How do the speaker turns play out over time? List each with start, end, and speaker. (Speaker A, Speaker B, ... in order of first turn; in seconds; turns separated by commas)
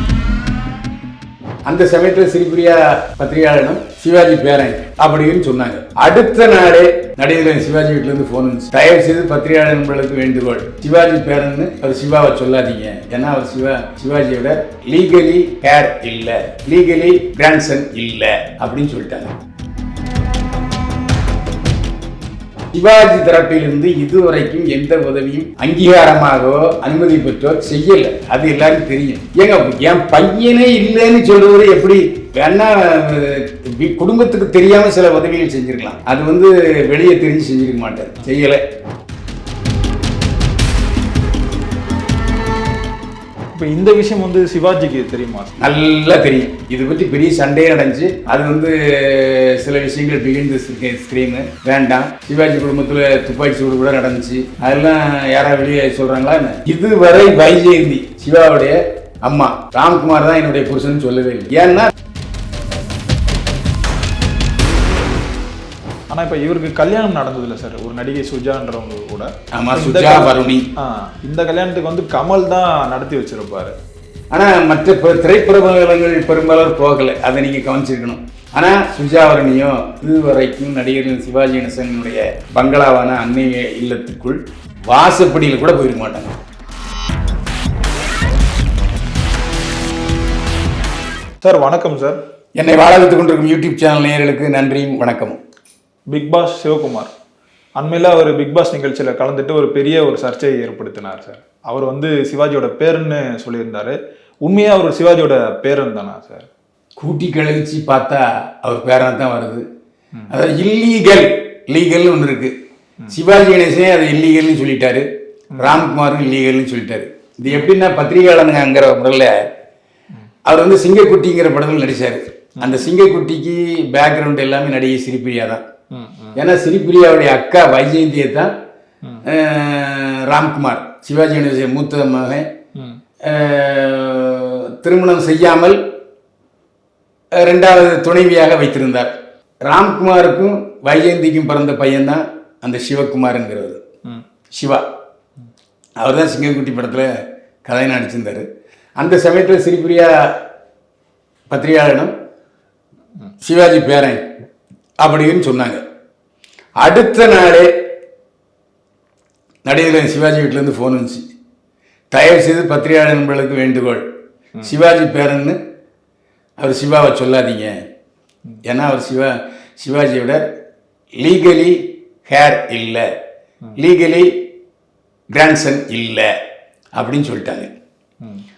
Speaker A: 1.6-19.3, Speaker A: 22.7-38.6, Speaker B: 43.5-45.5, Speaker A: 45.6-61.9, Speaker B: 66.1-73.7, Speaker A: 69.5-70.7, Speaker A: 74.3-86.3, Speaker B: 91.4-92.2, Speaker A: 92.6-95.4, Speaker B: 96.1-97.1, Speaker B: 97.8-106.5, Speaker A: 107.0-109.6, Speaker A: 110.3-112.5, Speaker A: 113.1-115.0, Speaker A: 115.6-119.3, Speaker A: 120.5-125.6, Speaker B: 125.9-126.4, Speaker A: 126.3-128.5, Speaker A: 129.2-132.5, Speaker A: 133.2-135.8, Speaker A: 137.4-139.1, Speaker A: 139.7-143.8, Speaker A: 144.5-144.8, Speaker A: 146.0-147.1, Speaker A: 147.6-148.4, Speaker A: 149.0-150.3, Speaker A: 151.5-152.1, Speaker A: 153.4-154.2, Speaker A: 155.0-155.8, Speaker A: 156.8-157.7, Speaker A: 159.6-161.2, Speaker A: 162.1-164.0, Speaker A: 164.6-165.6, Speaker A: 166.6-167.8, Speaker A: 168.6-170.4, Speaker A: 171.2-173.1, Speaker A: 173.8-174.3, Speaker A: 175.3-176.3, Speaker A: 176.9-177.7